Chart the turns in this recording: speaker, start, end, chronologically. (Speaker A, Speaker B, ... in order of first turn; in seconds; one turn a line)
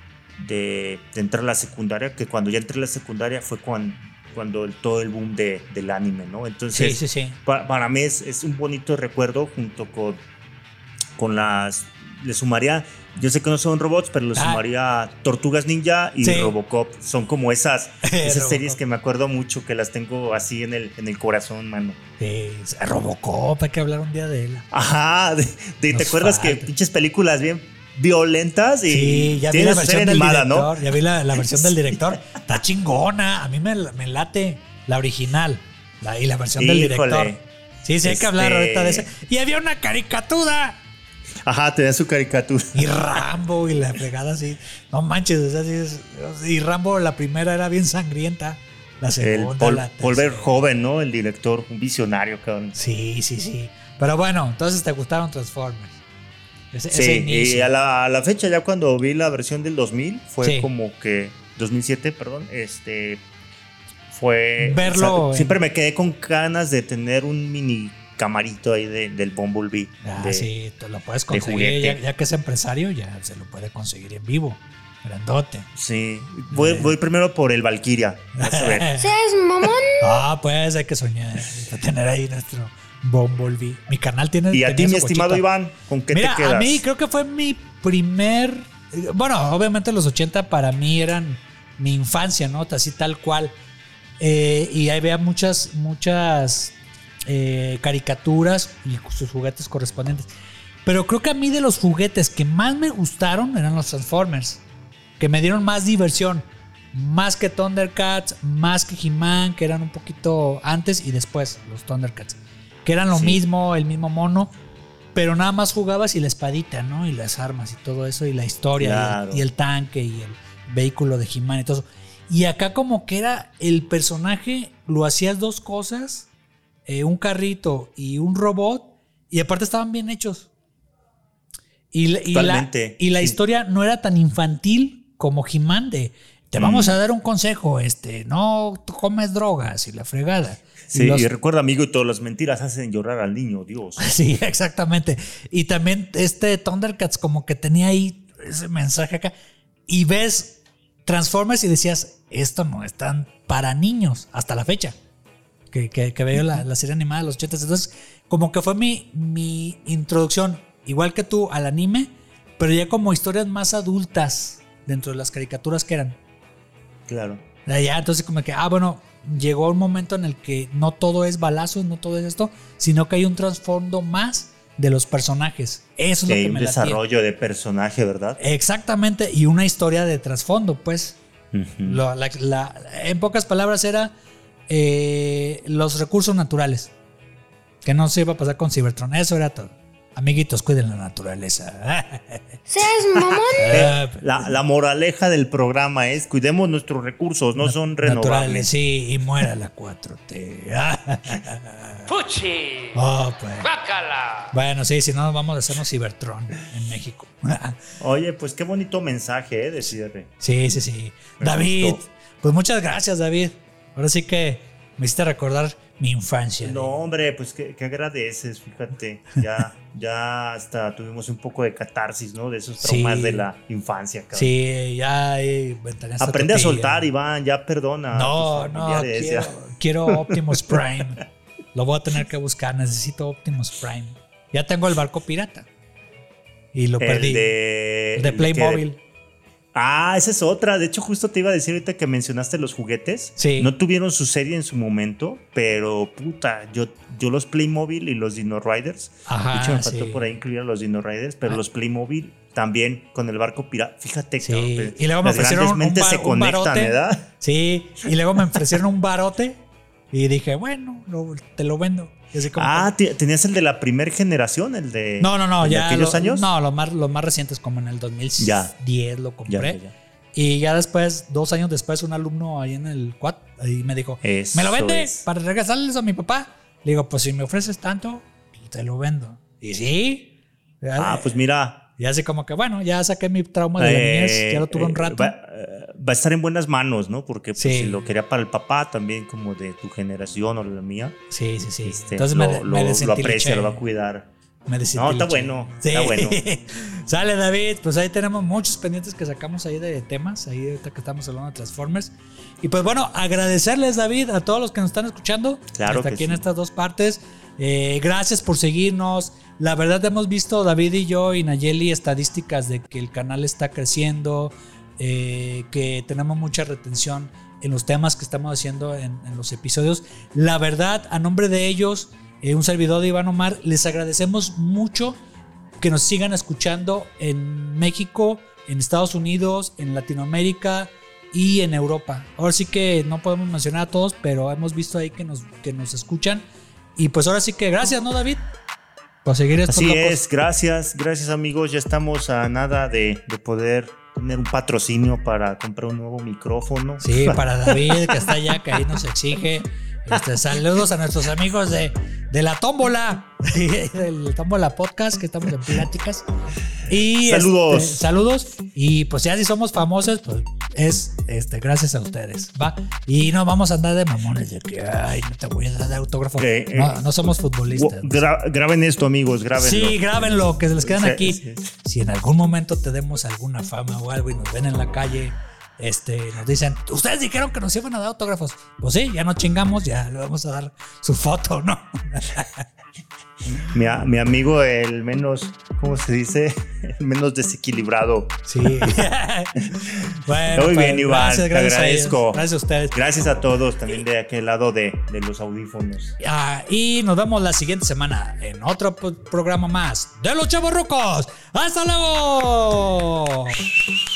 Speaker A: 0.4-10.2
Speaker B: 6.7-7.4
Speaker A: 11.2-22.0
Speaker B: 14.4-14.6
Speaker B: 16.2-16.5
Speaker B: 18.0-18.8
Speaker B: 22.2-24.7
Speaker A: 24.7-32.2
Speaker B: 25.9-26.7
Speaker B: 28.9-40.8
Speaker A: 36.6-37.4
Speaker A: 38.0-39.1
Speaker A: 41.4-43.2
Speaker B: 42.7-50.6
Speaker A: 49.2-52.8
Speaker B: 52.8-56.0
Speaker B: 56.7-57.7
Speaker A: 56.9-63.2
Speaker B: 60.4-60.7
Speaker A: 64.1-70.5
Speaker B: 64.6-65.6
Speaker B: 70.0-75.7
Speaker A: 71.3-72.0
Speaker A: 75.8-79.0
Speaker B: 76.5-76.9
Speaker B: 78.4-79.1
Speaker C: 79.0-80.1
Speaker B: 80.0-85.5
Speaker A: 84.5-86.8
Speaker B: 86.1-93.5
Speaker B: 94.2-100.3
Speaker B: 100.8-104.6
Speaker B: 105.2-114.5
Speaker A: 113.1-113.4
Speaker B: 115.2-126.3
Speaker A: 118.8-119.5
Speaker B: 126.9-130.5
Speaker B: 131.9-141.3
Speaker A: 132.3-133.4
Speaker A: 136.6-137.0
Speaker A: 140.9-144.1
Speaker B: 144.0-149.3
Speaker B: 149.9-154.9
Speaker B: 155.7-166.2
Speaker A: 167.1-167.4
Speaker B: 167.7-177.0
Speaker A: 176.3-178.4
Speaker B: 178.4-181.2
Speaker A: 181.5-182.0
Speaker B: 181.8-184.1
Speaker B: 184.7-186.9
Speaker B: 187.8-192.5
Speaker C: 192.7-193.9
Speaker B: 193.5-194.2
Speaker A: 193.7-198.7
Speaker B: 197.6-202.1
Speaker B: 202.9-203.8
Speaker B: 204.4-207.8
Speaker A: 208.0-210.3
Speaker B: 210.4-216.9
Speaker A: 211.4-212.0
Speaker A: 216.6-224.5
Speaker B: 222.8-223.5
Speaker B: 224.3-227.1
Speaker A: 226.2-231.1
Speaker B: 228.1-231.2
Speaker B: 231.8-235.7
Speaker B: 236.7-237.5
Speaker A: 237.0-238.8
Speaker B: 238.2-239.0
Speaker A: 239.7-257.3
Speaker B: 243.4-243.7
Speaker B: 249.3-250.2
Speaker B: 254.4-262.9
Speaker A: 262.6-266.5
Speaker B: 265.2-269.8
Speaker A: 268.4-268.7
Speaker A: 269.5-269.9
Speaker B: 270.3-281.3
Speaker A: 274.2-275.3
Speaker A: 281.0-281.9
Speaker B: 282.0-285.3
Speaker A: 283.8-291.2
Speaker B: 287.6-288.0
Speaker B: 291.3-293.8
Speaker A: 291.9-294.3
Speaker B: 294.7-325.2
Speaker A: 294.9-296.4
Speaker A: 305.8-306.4
Speaker B: 325.8-338.4
Speaker B: 339.2-340.2
Speaker A: 339.7-348.8
Speaker B: 347.0-356.2
Speaker B: 356.9-368.3
Speaker A: 357.2-358.0
Speaker A: 366.4-371.7
Speaker B: 369.6-382.6
Speaker A: 383.7-389.1
Speaker B: 388.5-392.9
Speaker A: 390.5-396.1
Speaker B: 396.2-403.6